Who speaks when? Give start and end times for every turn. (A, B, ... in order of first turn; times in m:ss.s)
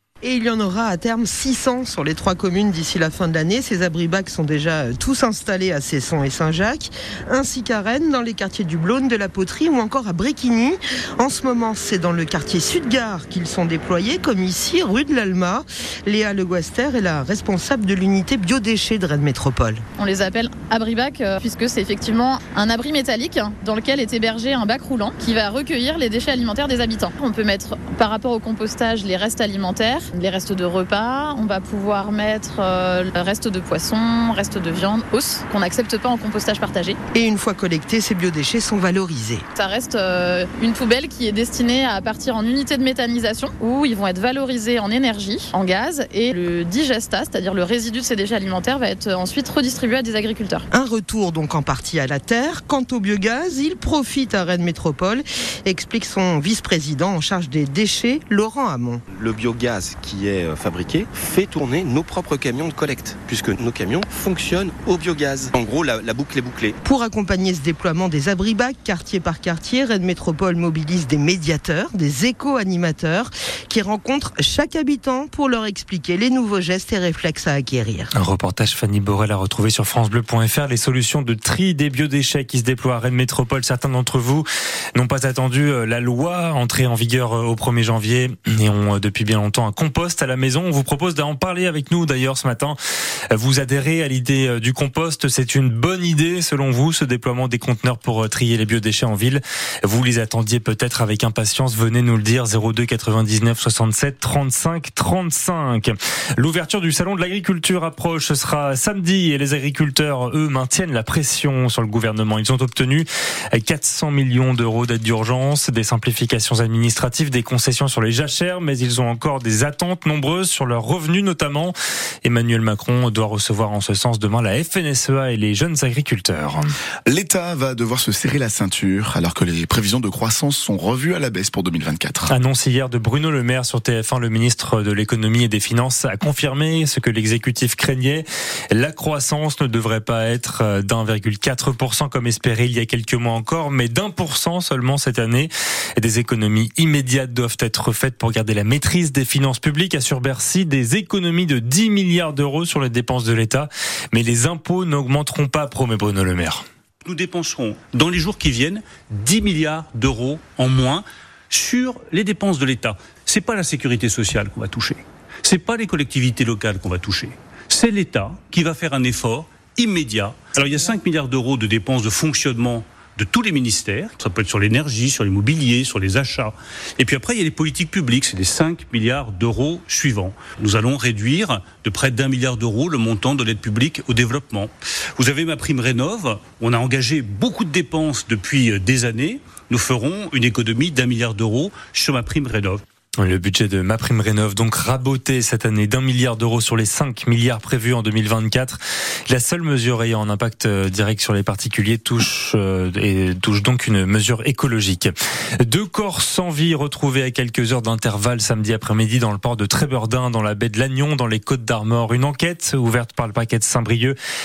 0:00.2-0:19.8 A
0:20.0-0:37.0 B
0:37.1-0:39.4 A
0:39.5-0:50.6 B
0:50.7-0:59.0 A
0:59.1-1:06.8 C
1:06.8-1:18.1 A
1:18.2-1:32.8 D
1:33.3-2:06.6 D
2:07.1-2:12.3 E
2:12.3-2:36.6 D
2:37.0-3:12.8 F
3:13.2-3:34.2 D